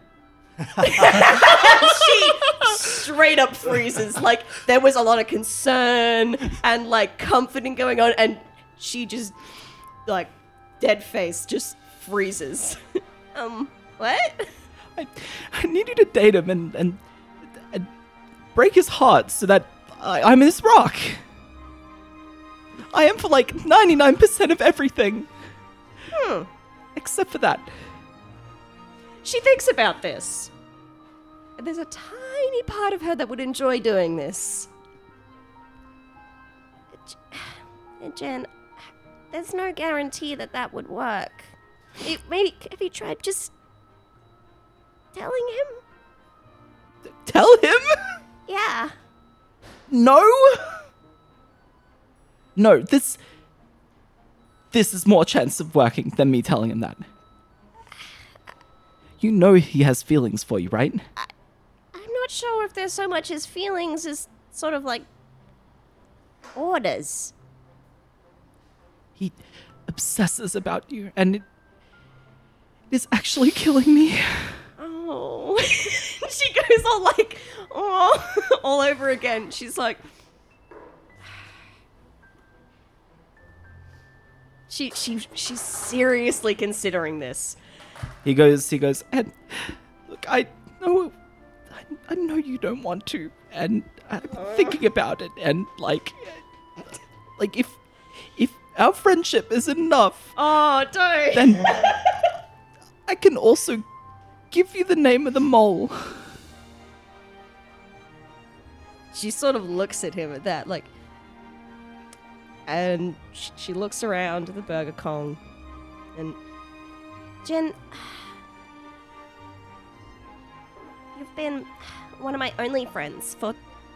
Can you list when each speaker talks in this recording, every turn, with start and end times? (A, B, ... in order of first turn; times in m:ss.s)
0:00.8-0:09.4 A
0:01.1-0:01.8 B
0:10.1-0:12.8 A
0:13.4-0:14.6 A
0:15.0-0:17.9 B
0:18.5-0:21.2 B
0:22.8-0:25.3 B
0:26.1-0:26.5 A
0:27.0-0:27.7 B
0:29.2-0:30.5 A
0:31.6-0:34.7 A
0:36.9-0:41.5 A
0:42.0-0:43.5 A
0:45.1-0:45.8 A
0:47.1-0:48.2 B
0:48.5-0:48.9 A
0:49.9-0:50.8 B
0:52.6-0:53.2 B
0:54.7-0:57.1 B
0:59.2-1:01.1 B
1:01.9-1:05.1 A
1:06.6-1:07.3 A
1:09.2-1:11.4 B
1:12.9-1:14.6 B
1:14.8-1:20.0 A
1:24.7-1:27.6 A
1:28.2-1:31.1 B
1:31.7-1:36.4 B
1:34.3-1:34.7 A
1:37.4-1:40.4 B
1:40.4-1:42.2 A
1:41.3-1:41.9 B
1:43.1-1:43.8 B
1:44.5-1:46.3 B
1:49.1-1:50.9 A
1:52.7-1:55.4 A
1:57.4-1:58.3 A
2:01.2-2:03.6 A